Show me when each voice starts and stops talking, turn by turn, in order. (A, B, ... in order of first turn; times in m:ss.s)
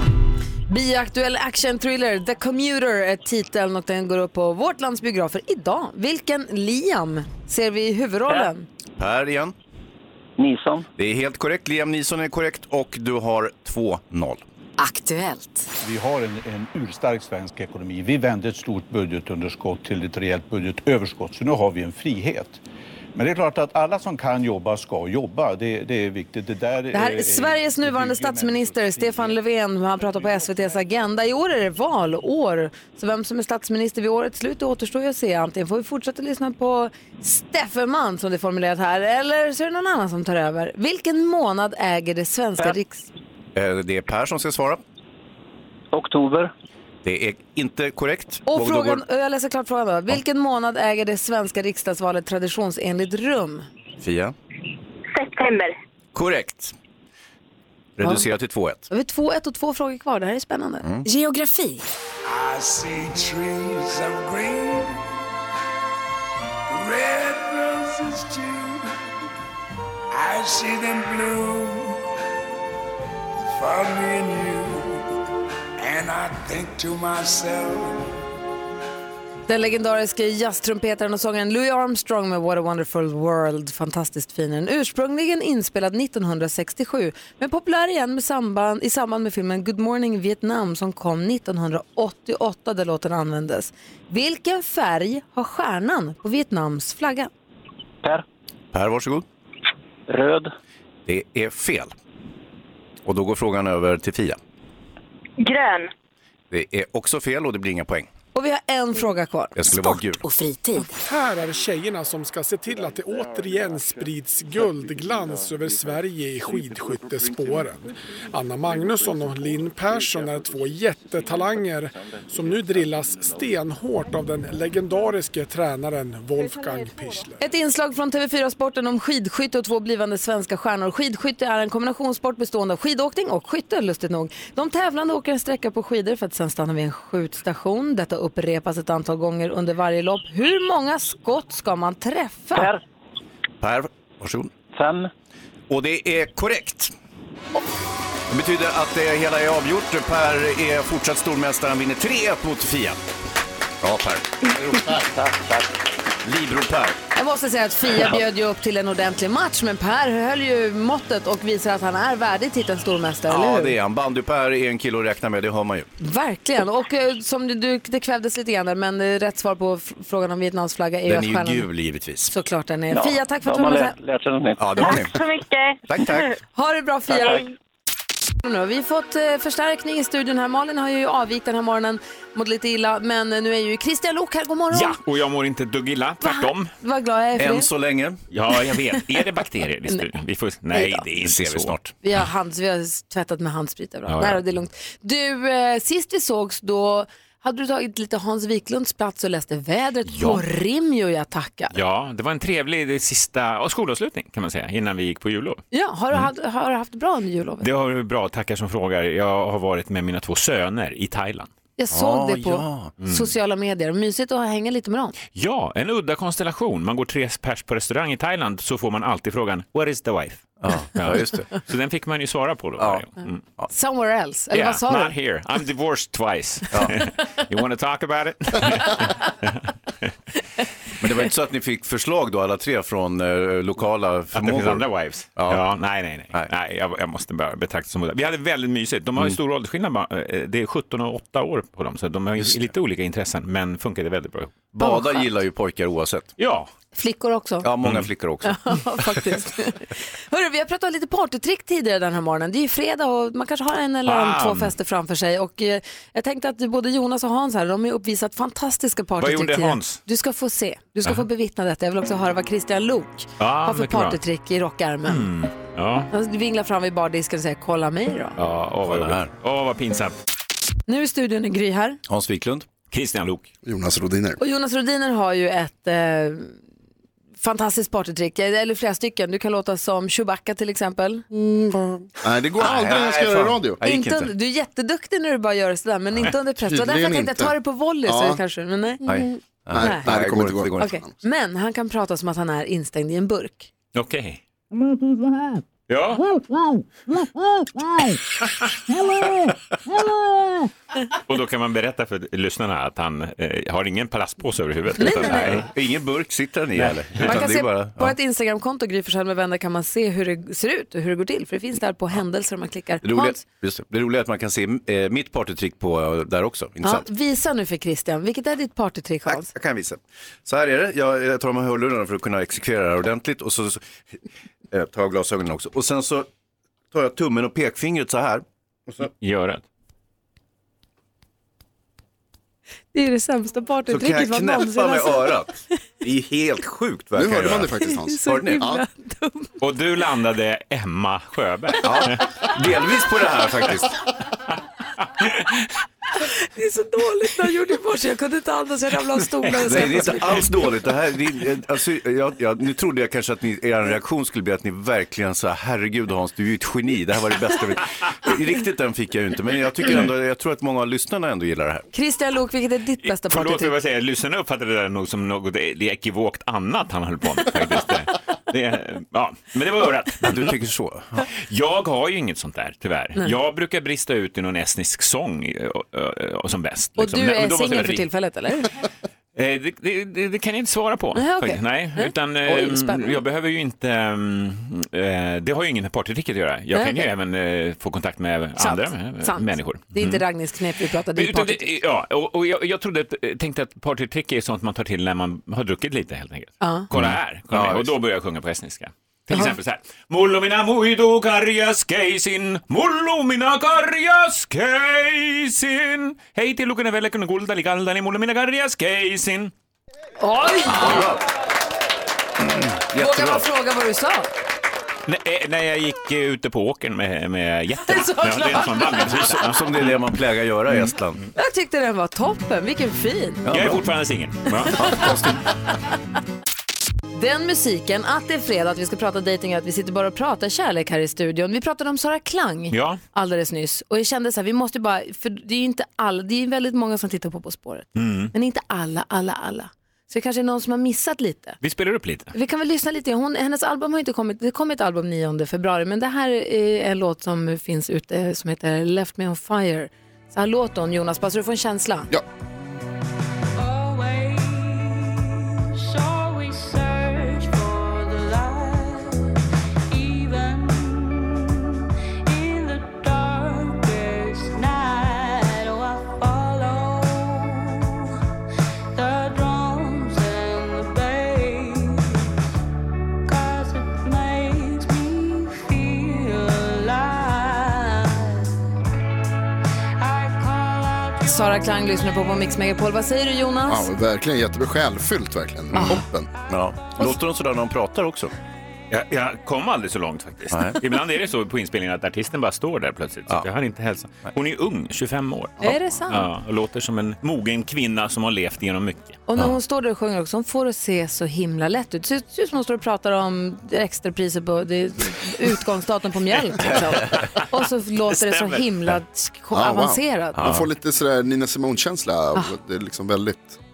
0:00.7-0:08.6 A
0:09.0-0:09.5 B
0:10.4-0:10.9 C
0:11.0-0:14.4 B
0:14.8-0:15.7 D
0:15.8-0:22.6 E
0:23.1-0:29.4 E
0:26.9-0:43.1 A
0:43.5-0:44.8 B
0:45.9-0:46.5 C
0:47.0-0:49.0 B
0:48.5-0:53.7 A
0:54.0-0:54.3 B
0:55.1-0:55.7 F
0:56.1-0:56.7 B
0:58.0-0:58.8 B
0:58.9-1:00.8 A
1:00.8-1:01.1 B
1:01.0-1:01.8 D
1:02.2-1:05.0 G
1:06.7-1:08.9 G
1:10.1-1:12.0 G
1:13.5-1:15.1 G
1:15.8-1:18.1 G
1:19.5-1:37.3 A
1:38.7-1:39.2 B
1:40.1-1:40.5 C
1:41.1-1:41.9 B
1:43.0-1:44.4 B
1:45.4-1:45.9 F
1:46.5-1:48.1 B
1:48.3-1:49.7 A
1:49.6-1:50.2 B
1:50.2-1:50.9 D
1:51.0-2:07.4 H
2:07.4-2:22.7 A
2:22.5-2:22.8 C
2:23.6-2:24.5 B
2:24.7-2:25.1 C
2:25.7-2:26.9 B
2:28.3-2:33.0 B
2:33.8-2:34.9 B
2:35.1-2:35.7 C
2:36.2-2:37.0 B
2:37.1-2:43.8 A
2:43.3-2:45.9 B
2:46.0-2:51.7 A
2:51.0-2:52.3 B
2:52.3-2:53.9 A
2:52.9-2:55.1 C
2:54.6-2:55.2 B
2:54.8-2:55.8 F
2:55.9-2:56.3 B
2:56.5-2:57.5 A
2:57.1-2:57.4 C
2:58.4-3:05.0 A
3:04.7-3:06.7 I
3:06.2-3:07.7 A
3:07.4-3:08.2 B
3:08.3-3:11.8 I
3:10.7-3:11.0 A
3:11.2-3:11.9 B
3:12.0-3:21.8 A
3:14.1-3:14.4 I
3:20.0-3:20.4 I
3:21.7-3:25.6 I
3:25.7-3:27.7 A
3:27.6-3:31.5 I
3:31.8-3:35.1 A
3:31.9-3:32.9 B
3:33.0-3:33.3 I
3:35.3-3:40.4 I
3:40.6-3:41.6 B
3:40.9-3:43.4 I
3:42.8-3:43.7 B
3:43.7-3:45.1 A
3:44.5-3:50.1 I
3:51.0-3:55.6 B
3:54.3-4:04.6 I
4:04.7-4:06.3 B
4:04.8-4:05.3 A
4:06.4-4:06.7 I
4:06.9-4:07.7 A
4:07.6-4:09.1 B
4:07.8-4:08.1 I
4:08.4-4:25.3 A
4:14.0-4:14.7 I
4:19.2-4:20.0 I
4:23.4-4:24.2 I
4:25.0-4:26.1 I
4:26.1-4:28.4 A
4:28.4-4:30.1 I
4:28.8-4:29.3 B
4:30.9-4:32.0 A
4:32.1-4:32.7 B
4:32.9-4:33.5 I
4:33.6-4:34.4 J
4:34.4-4:36.6 A
4:37.4-4:41.2 A
4:41.3-4:43.8 J
4:42.6-4:44.3 B
4:43.8-4:49.0 A
4:46.6-4:48.4 J
4:49.0-4:50.9 B
4:49.7-4:51.1 J
4:49.8-4:50.1 A
4:50.8-4:53.7 A
4:53.9-4:54.4 I
4:55.9-4:56.3 I
5:01.2-5:05.7 I
5:05.0-5:05.6 A
5:05.1-5:08.1 B
5:06.8-5:07.5 I
5:07.2-5:13.4 A
5:13.0-5:17.0 B
5:16.8-5:19.5 A
5:19.2-5:23.8 B
5:24.7-5:26.3 B
5:26.9-5:29.1 B
5:29.0-5:29.6 I
5:32.9-5:35.4 A
5:33.9-5:37.7 B
5:37.2-5:38.8 J
5:37.8-5:39.5 A
5:38.2-5:38.6 B
5:39.6-5:42.4 I
5:41.8-5:43.9 B
5:45.2-5:45.6 I
5:46.5-5:50.4 A
5:49.6-6:01.9 B
6:01.9-6:03.7 A
6:03.0-6:10.5 I
6:10.2-6:11.2 B
6:11.2-6:18.1 I
6:17.0-6:18.7 A
6:19.3-6:30.2 I
6:21.1-6:23.2 A
6:26.7-6:27.1 A
6:28.6-6:31.6 A
6:31.1-6:49.5 I
6:36.6-6:36.9 A
6:36.9-6:38.0 B
6:50.2-6:51.1 A
6:50.7-6:51.2 B
6:52.4-6:53.4 B
6:53.0-6:54.3 A
6:55.0-6:59.9 I
6:57.8-6:59.3 A
6:59.1-7:01.2 B
7:01.4-7:03.4 A
7:03.4-7:03.9 B
7:03.5-7:04.9 I
7:04.7-7:05.4 B
7:07.1-7:21.6 A
7:12.7-7:13.0 I
7:17.9-7:18.3 I
7:21.6-7:22.3 I
7:22.3-7:32.1 A
7:33.6-7:48.2 K
7:48.9-7:52.3 K
7:53.2-7:58.6 K
8:00.0-8:01.7 K
8:01.2-8:03.9 A
8:03.7-8:06.3 J
8:05.7-8:08.3 B
8:08.9-8:19.2 I
8:10.5-8:10.8 B
8:15.6-8:16.3 A
8:19.3-8:30.4 A
8:26.6-8:27.3 B
8:28.1-8:28.8 I
8:29.5-8:33.6 J
8:30.4-8:30.7 B